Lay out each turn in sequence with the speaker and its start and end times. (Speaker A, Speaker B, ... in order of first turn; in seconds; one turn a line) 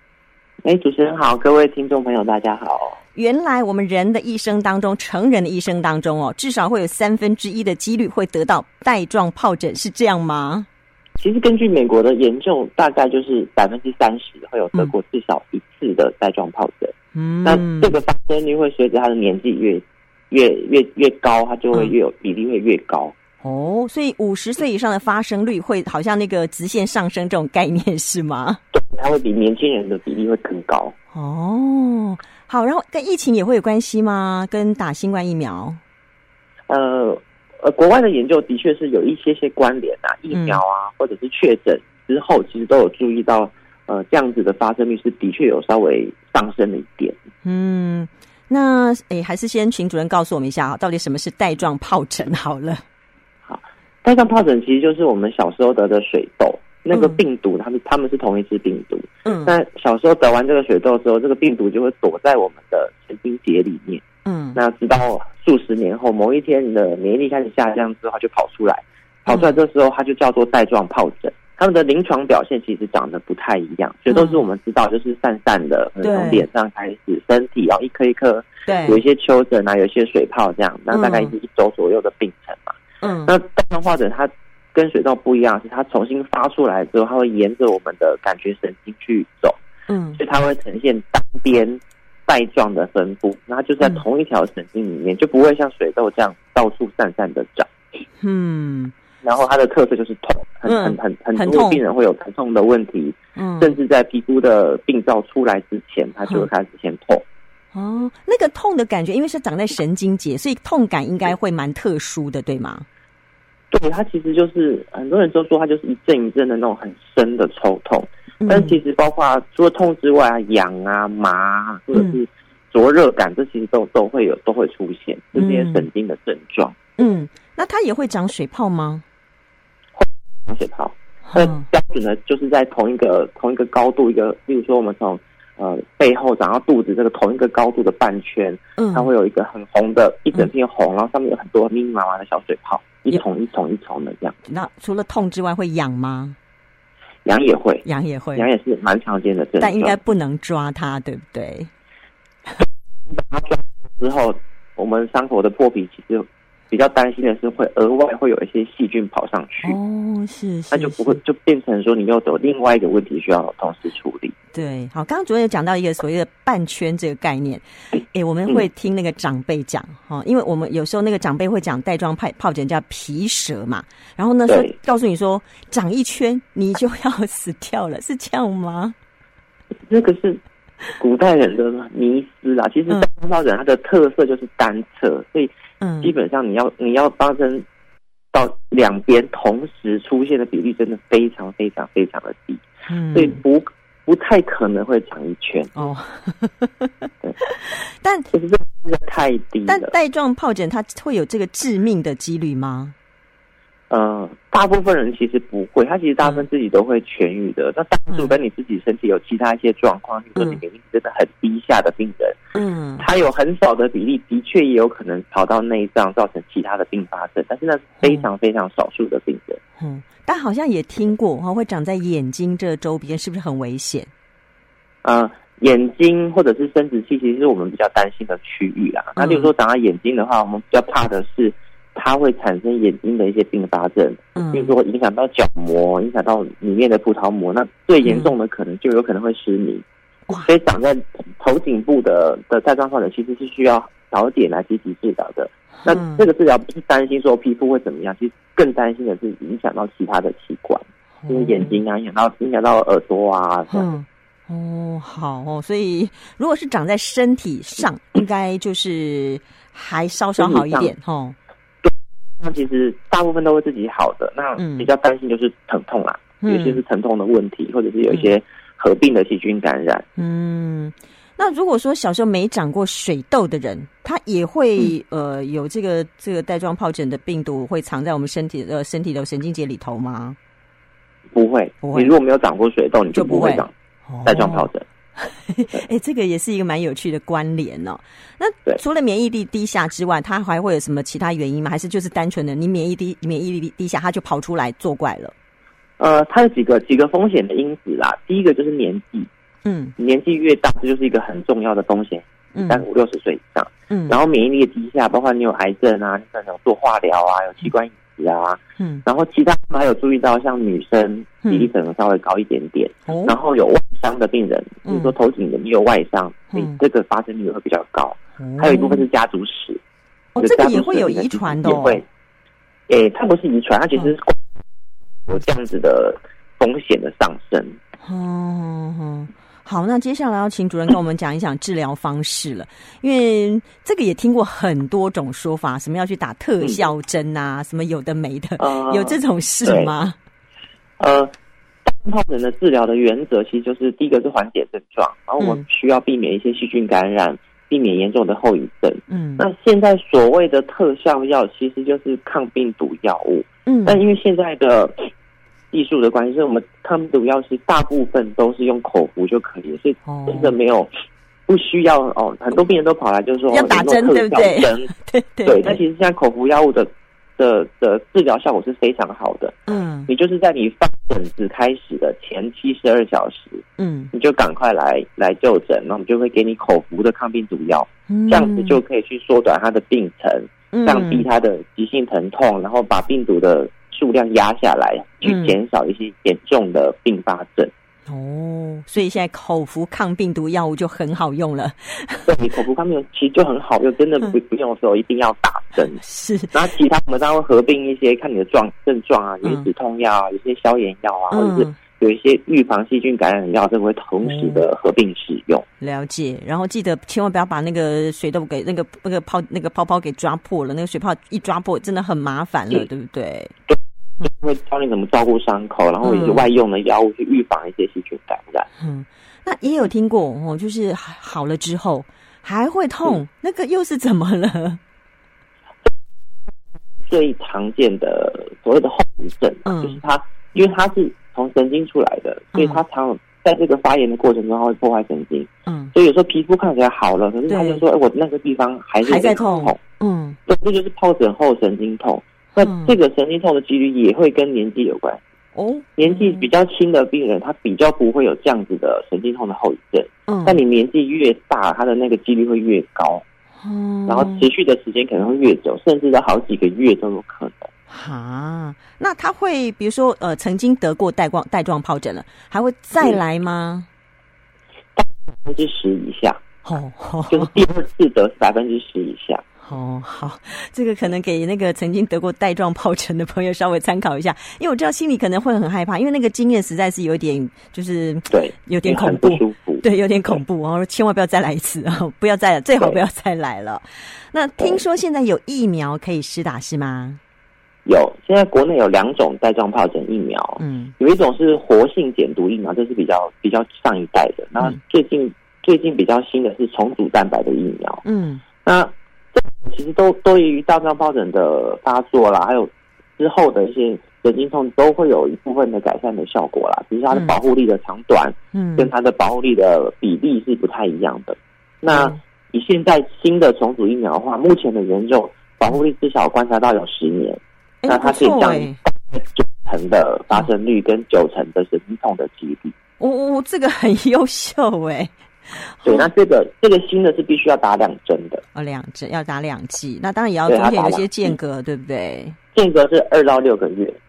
Speaker A: 0.7-3.0
Speaker B: 3.1-10.7
Speaker A: 11.2-16.9
Speaker B: 17.1-18.0
Speaker A: 17.4-23.1
Speaker B: 23.4-28.6
Speaker A: 28.7-30.9
Speaker B: 31.1-35.8
Speaker A: 36.7-47.2
Speaker B: 40.3-40.6
Speaker B: 47.4-52.8
Speaker A: 53.5-64.0
Speaker B: 56.9-57.2
Speaker B: 59.2-59.5
Speaker B: 64.2-64.6
Speaker A: 64.5-89.6
Speaker B: 69.3-69.6
Speaker B: 74.1-74.4
Speaker B: 76.0-76.5
Speaker B: 78.7-79.0
Speaker B: 80.9-81.3
Speaker B: 83.0-83.3
Speaker B: 89.9-90.2
Speaker A: 90.2-97.7
Speaker B: 98.2-98.9
Speaker A: 99.2-107.2
Speaker B: 100.7-101.8
Speaker B: 103.4-103.8
Speaker B: 107.7-112.8
Speaker A: 113.7-126.8
Speaker B: 118.4-118.8
Speaker B: 125.3-125.9
Speaker B: 127.0-129.0
Speaker A: 130.0-144.4
Speaker B: 131.3-131.7
Speaker B: 138.8-139.1
Speaker B: 144.5-146.4
Speaker A: 147.2-150.0
Speaker B: 147.8-148.5
Speaker B: 149.6-151.7
Speaker A: 153.1-159.8
Speaker B: 159.6-161.2
Speaker A: 160.7-164.3
Speaker B: 164.5-178.9
Speaker A: 174.5-174.7
Speaker A: 179.9-180.4
Speaker A: 181.0-187.7
Speaker B: 185.8-186.1
Speaker A: 188.3-195.8
Speaker B: 192.9-193.4
Speaker B: 195.8-198.3
Speaker A: 198.3-199.9
Speaker B: 199.7-202.9
Speaker A: 203.9-212.4
Speaker B: 212.6-213.1
Speaker A: 213.0-219.6
Speaker B: 218.0-218.3
Speaker B: 219.8-224.1
Speaker A: 225.0-239.8
Speaker B: 229.2-229.5
Speaker B: 234.4-234.7
Speaker B: 238.0-238.3
Speaker A: 240.4-253.9
Speaker B: 245.8-246.3
Speaker B: 251.2-251.8
Speaker B: 253.7-261.4
Speaker A: 260.4-260.9
Speaker A: 261.8-270.1
Speaker B: 264.6-264.9
Speaker B: 266.4-266.8
Speaker B: 270.2-280.4
Speaker A: 281.3-283.7
Speaker B: 281.8-282.1
Speaker B: 283.1-284.7
Speaker A: 284.2-284.9
Speaker B: 285.2-295.3
Speaker A: 296.0-299.3
Speaker B: 299.6-299.9
Speaker A: 300.0-319.8
Speaker B: 302.5-302.9
Speaker B: 303.9-304.2
Speaker B: 308.8-309.0
Speaker B: 313.1-313.3
Speaker B: 314.9-315.1
Speaker B: 316.5-316.8
Speaker B: 318.4-319.1
Speaker B: 320.4-322.0
Speaker A: 320.4-322.0
Speaker A: 322.9-324.4
Speaker A: 325.3-327.8
Speaker B: 328.0-340.2
Speaker A: 338.6-339.9
Speaker A: 341.0-341.3
Speaker A: 341.9-355.1
Speaker B: 345.4-345.6
Speaker B: 349.1-349.4
Speaker B: 353.7-354.0
Speaker A: 355.7-360.9
Speaker B: 360.1-360.5
Speaker A: 361.5-364.9
Speaker B: 363.5-365.8
Speaker A: 365.4-369.6
Speaker B: 369.7-370.1
Speaker A: 370.1-387.7
Speaker B: 373.8-374.1
Speaker B: 378.1-378.8
Speaker B: 380.7-381.3
Speaker B: 385.2-385.6
Speaker B: 388.1-392.3
Speaker A: 392.3-396.0
Speaker B: 396.0-396.6
Speaker A: 396.5-405.6
Speaker B: 401.3-401.8
Speaker B: 404.2-404.6
Speaker B: 405.8-413.5
Speaker A: 413.7-418.7
Speaker B: 416.0-416.5
Speaker B: 418.8-424.8
Speaker A: 427.1-439.8
Speaker B: 429.6-430.0
Speaker B: 432.5-432.8
Speaker B: 435.7-435.9
Speaker B: 437.5-437.8
Speaker B: 439.0-440.4
Speaker A: 440.5-445.2
Speaker B: 442.6-442.9
Speaker B: 445.6-446.5
Speaker A: 446.0-453.2
Speaker B: 450.3-450.6
Speaker B: 453.6-454.5
Speaker A: 454.1-457.7
Speaker B: 457.9-463.9
Speaker A: 465.0-466.4
Speaker B: 466.6-467.6
Speaker A: 467.3-469.4
Speaker B: 469.6-487.2
Speaker A: 478.3-479.9
Speaker A: 487.9-498.0
Speaker B: 490.6-490.9
Speaker B: 498.1-498.4
Speaker A: 498.6-522.7
Speaker B: 508.5-508.9
Speaker B: 511.9-512.2
Speaker B: 517.8-518.8
Speaker B: 523.0-526.1
Speaker A: 525.9-528.4
Speaker B: 528.5-532.4
Speaker A: 530.5-531.4
Speaker A: 532.5-534.0